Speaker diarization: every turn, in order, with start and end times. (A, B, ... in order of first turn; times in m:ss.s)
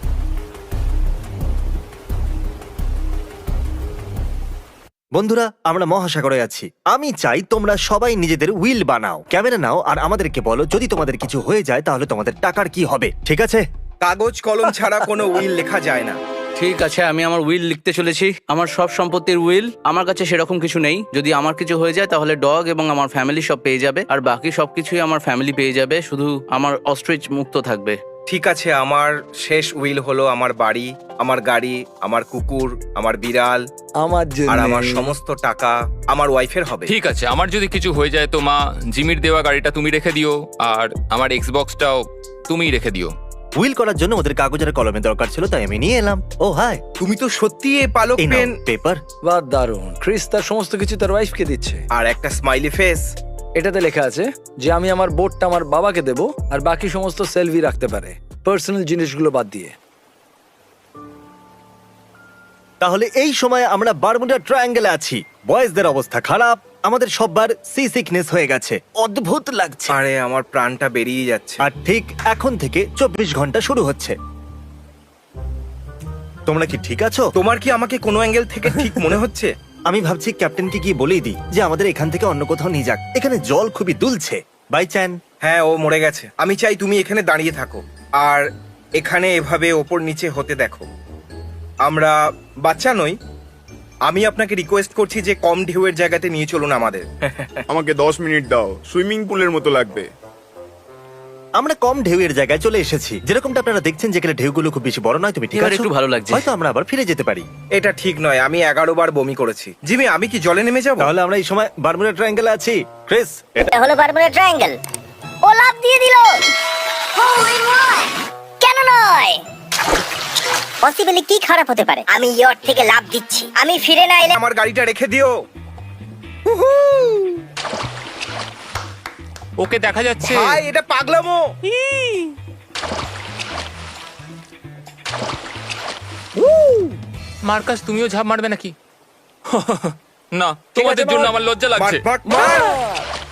0:05.2-0:13.6 A
0:14.0-0:16.2 B
0:16.6-0:28.0 C
0:28.3-0:33.6 B
0:34.0-0:35.1 D
0:34.5-0:36.9 B
0:36.9-0:43.1 E
0:43.6-0:46.8 A
0:47.0-0:48.5 B
0:48.2-0:49.0 A
0:49.2-0:51.8 D
0:51.9-0:53.1 B
0:53.6-0:59.7 D
1:02.8-1:10.0 A
1:09.9-1:11.6 B
1:11.6-1:14.1 A
1:16.5-1:17.2 A
1:17.4-1:19.5 B
1:19.9-1:25.2 A
1:25.4-1:28.4 B
1:29.0-1:30.8 B
1:31.8-1:32.1 B
1:32.6-1:33.1 B
1:34.1-1:37.6 B
1:37.7-1:40.1 F
1:41.6-1:47.4 A
1:45.5-1:46.4 C
1:47.8-1:51.1 B
1:51.0-1:53.7 A
1:53.7-1:54.8 G
1:55.4-1:56.4 G
1:57.2-1:58.1 G
1:58.6-1:59.4 G
2:00.8-2:04.4 G
2:04.3-2:05.3 B
2:06.5-2:07.4 B
2:09.6-2:10.6 E
2:10.2-2:11.4 B
2:16.4-2:17.0 D
2:17.4-2:18.7 E
2:19.5-2:22.1 E
2:20.7-2:21.3 D
2:21.8-2:22.8 B
2:22.2-2:23.0 D